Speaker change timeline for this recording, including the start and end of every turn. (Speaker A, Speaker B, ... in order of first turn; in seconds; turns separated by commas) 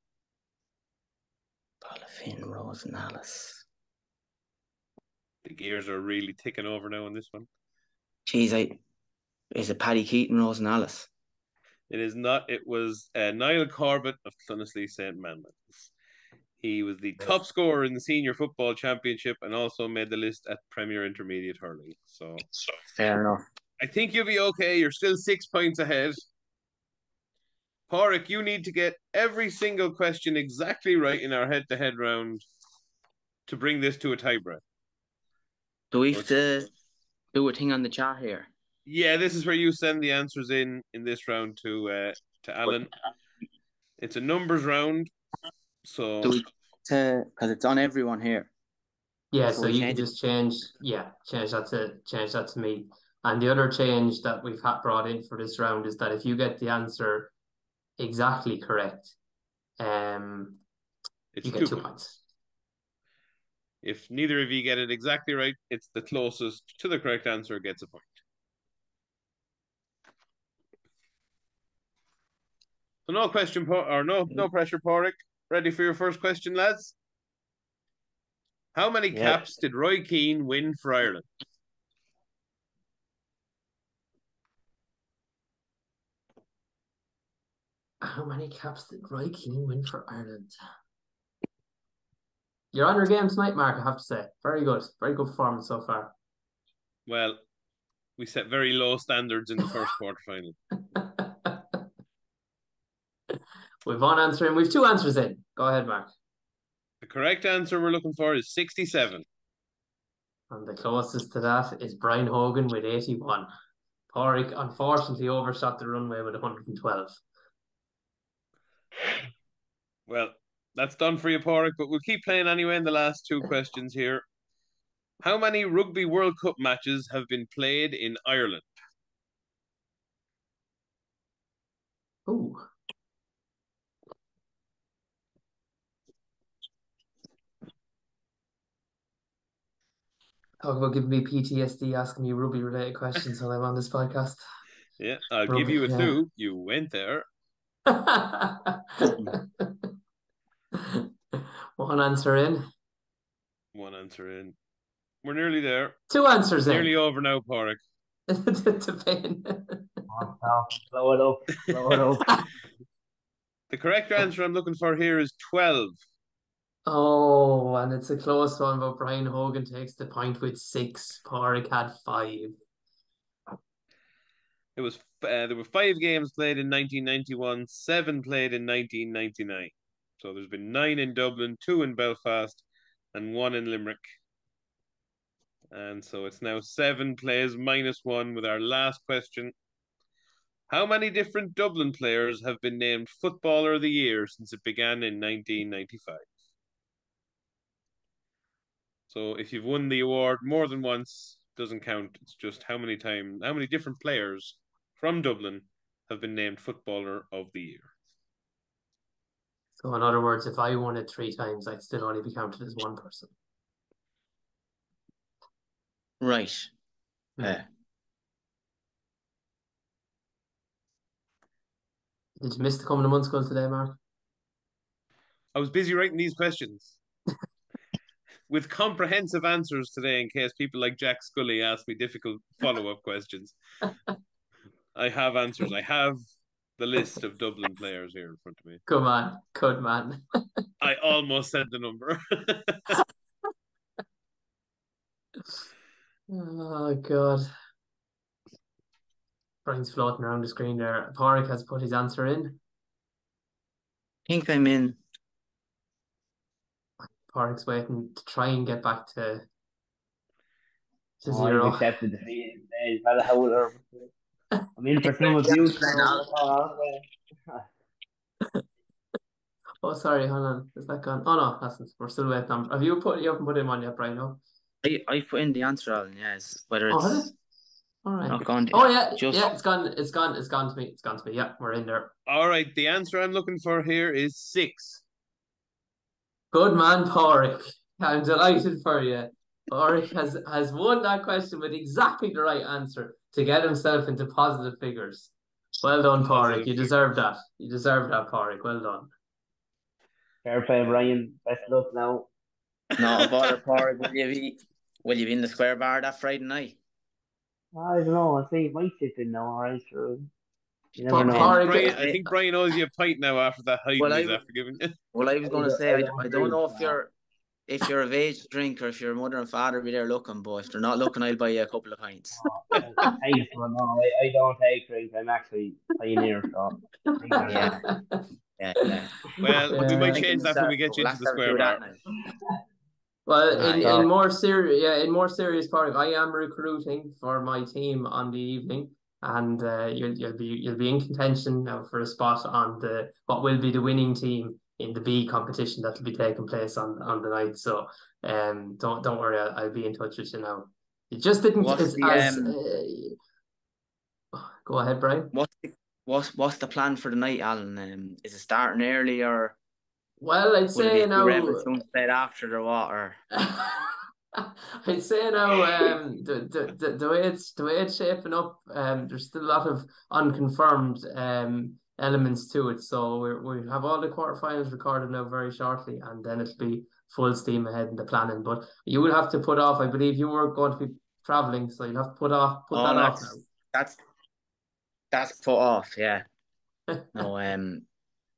Speaker A: 1.8-3.6, Speaker B: 5.4-7.5, Speaker A: 8.3-8.8, Speaker A: 9.5-11.1, Speaker B: 11.9-15.9, Speaker B: 16.6-22.4, Speaker A: 22.8-23.4, Speaker B: 23.8-26.2, Speaker B: 27.9-32.4, Speaker B: 33.5-34.6, Speaker A: 35.9-36.7, Speaker A: 37.3-38.5, Speaker B: 38.9-42.9, Speaker B: 44.0-45.1, Speaker B: 45.8-46.3, Speaker A: 46.2-48.5, Speaker C: 49.3-57.3, Speaker A: 49.5-50.1, Speaker C: 58.0-59.1, Speaker C: 59.8-60.6, Speaker B: 61.3-61.9, Speaker C: 61.4-62.2, Speaker B: 63.8-68.1, Speaker B: 73.1-77.0, Speaker B: 78.7-81.2, Speaker A: 79.1-79.5, Speaker C: 88.0-90.5, Speaker C: 92.7-96.1, Speaker B: 97.0-97.4, Speaker B: 98.2-100.5, Speaker C: 100.9-101.5, Speaker C: 103.8-106.1, Speaker B: 107.0-109.2, Speaker C: 110.5-113.5, Speaker C: 114.1-117.2, Speaker B: 120.1-124.2, Speaker B: 125.2-128.7, Speaker C: 132.3-132.6, Speaker C: 140.6-144.4, Speaker B: 145.0-147.2, Speaker C: 145.5-146.2, Speaker C: 147.9-148.8, Speaker A: 149.0-149.3, Speaker C: 149.3-149.9, Speaker C: 151.8-152.6, Speaker B: 153.7-154.6, Speaker B: 155.2-156.0, Speaker C: 156.1-156.9, Speaker B: 156.7-157.8, Speaker C: 158.3-159.8, Speaker D: 160.1-162.3, Speaker B: 163.7-165.9, Speaker C: 166.8-172.6, Speaker B: 174.8-184.0, Speaker B: 185.7-189.5, Speaker B: 190.7-196.2, Speaker B: 199.1-207.9, Speaker C: 209.8-213.3, Speaker A: 216.2-216.7, Speaker A: 217.4-217.6, Speaker C: 222.4-224.0, Speaker B: 225.5-227.0, Speaker B: 228.5-233.6, Speaker B: 234.9-236.2, Speaker B: 236.8-238.8, Speaker C: 238.9-240.2, Speaker B: 240.8-242.9, Speaker C: 246.3-247.4, Speaker C: 249.6-252.6, Speaker A: 254.3-255.0, Speaker C: 257.0-259.4, Speaker C: 261.2-261.8, Speaker D: 261.2-264.1, Speaker D: 264.8-267.6, Speaker A: 265.2-266.3, Speaker C: 269.8-274.4, Speaker A: 274.8-277.3, Speaker C: 276.9-277.3, Speaker C: 278.0-282.1, Speaker A: 278.3-279.5, Speaker B: 282.3-285.0, Speaker C: 286.5-299.1, Speaker B: 296.2-296.9, Speaker D: 300.4-302.3, Speaker A: 303.0-306.8, Speaker D: 307.7-310.3, Speaker D: 310.9-311.6, Speaker C: 311.1-312.0, Speaker B: 311.3-314.9, Speaker A: 311.6-312.2, Speaker A: 314.0-314.4, Speaker A: 315.1-317.1, Speaker D: 315.4-317.0, Speaker A: 317.7-322.4, Speaker D: 322.4-327.7, Speaker A: 327.4-327.8, Speaker C: 327.5-328.2, Speaker A: 328.6-329.1, Speaker B: 329.4-331.8, Speaker C: 329.7-330.2, Speaker A: 330.0-332.0, Speaker C: 333.2-353.1, Speaker D: 333.5-334.1, Speaker A: 351.6-352.6, Speaker C: 354.3-355.3, Speaker A: 355.3-359.5, Speaker C: 360.2-361.7, Speaker A: 360.7-363.2, Speaker C: 363.4-383.4, Speaker A: 382.7-384.0, Speaker A: 385.1-386.2, Speaker A: 387.1-387.8